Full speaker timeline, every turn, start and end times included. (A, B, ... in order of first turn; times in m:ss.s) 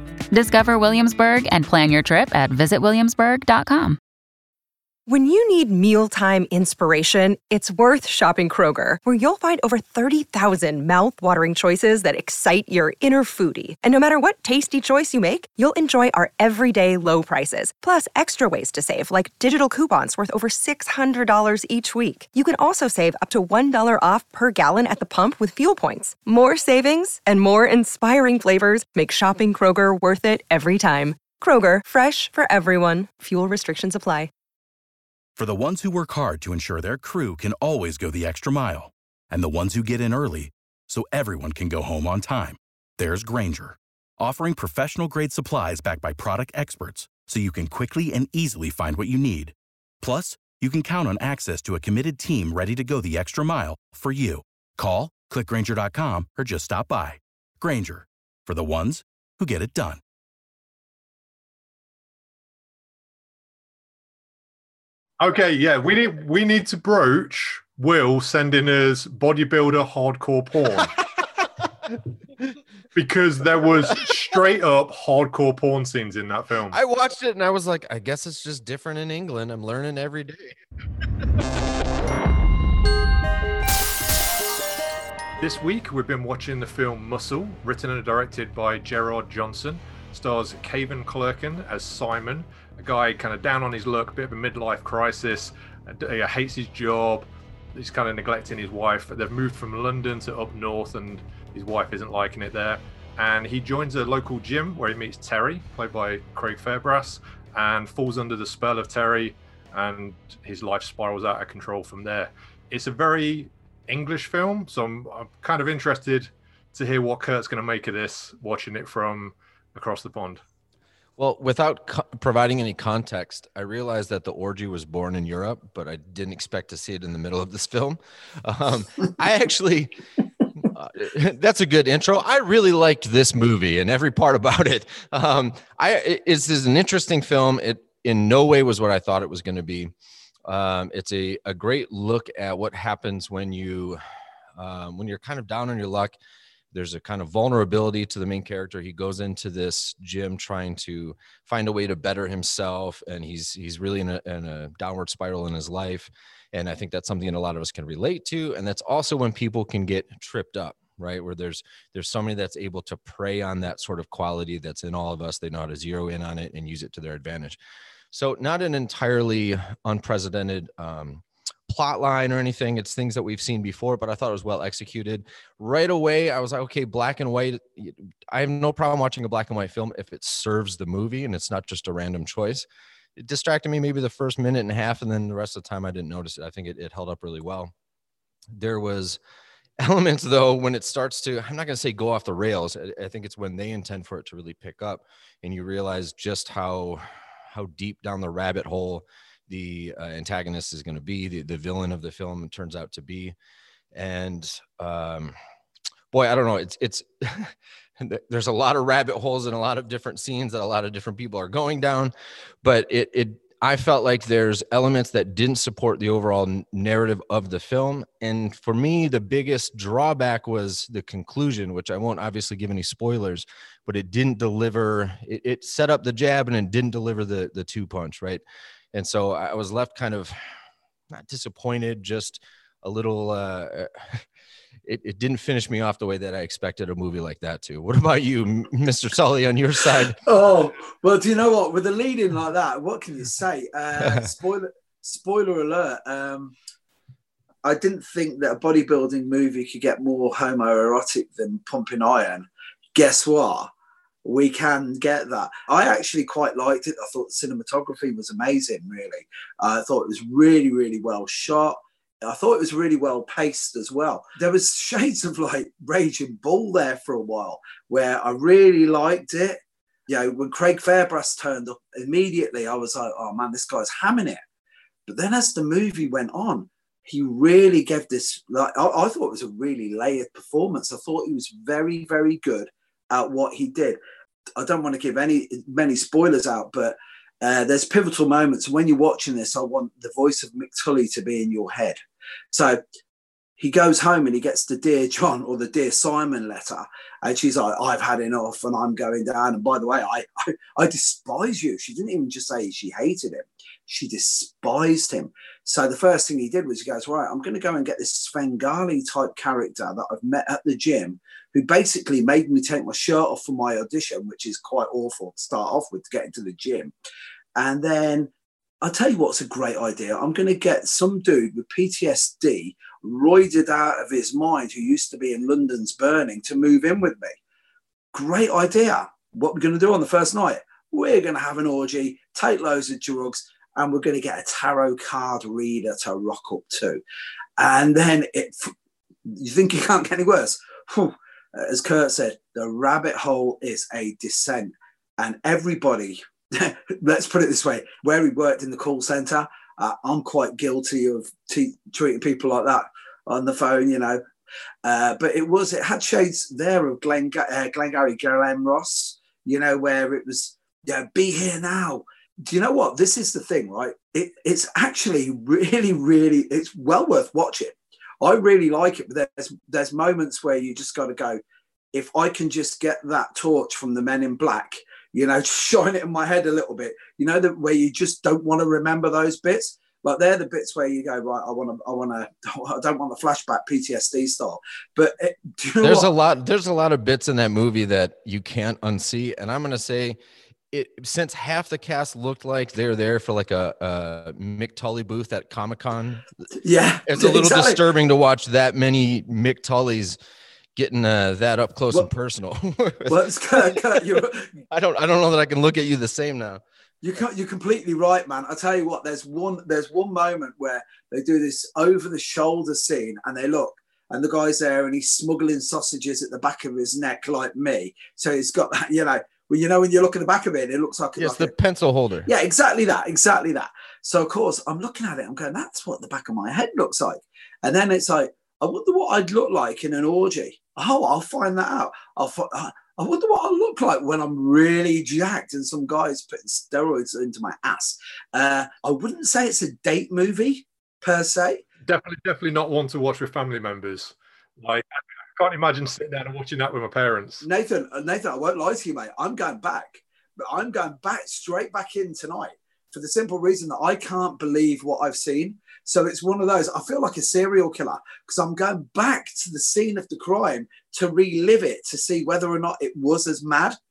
0:00.3-0:04.0 A
0:05.1-0:34.3 B
0:35.4-1:00.0 C
1:05.2-1:10.9 D
1:12.9-1:16.8 D
1:16.7-1:20.6 E
1:25.4-2:00.4 D
2:01.2-2:10.0 E
2:10.6-2:19.9 E
2:20.4-2:24.0 E
2:24.5-2:26.2 E
2:26.7-2:47.6 E
2:48.1-3:07.7 E
3:08.5-3:09.2 E
3:09.8-3:23.3 E
3:23.9-3:25.3 E
3:26.1-3:48.4 E
3:48.9-3:50.4 E
3:51.1-3:54.2 E
3:54.8-4:00.2 E
4:00.2-4:06.5 F
4:04.0-4:04.3 E
4:07.6-4:13.7 F
4:14.2-4:34.4 F
4:35.1-4:44.0 F
4:44.6-4:52.0 F
4:52.5-4:52.8 F
4:53.6-5:16.9 F
5:17.5-5:18.3 F
5:18.8-5:27.4 F
5:28.1-5:37.0 F
5:37.6-5:38.7 F
5:39.2-5:54.2 F
5:54.8-6:11.4 F
6:11.9-6:26.1 F
6:25.8-6:30.2 E
6:30.7-6:36.2 E
6:36.6-6:37.8 F
6:37.0-6:40.2 E
6:40.8-6:46.6 E
6:43.1-6:44.5 F
6:47.0-7:01.5 F
7:01.2-7:02.3 E
7:02.3-7:21.6 F
7:21.8-7:27.4 D
7:27.4-7:43.8 F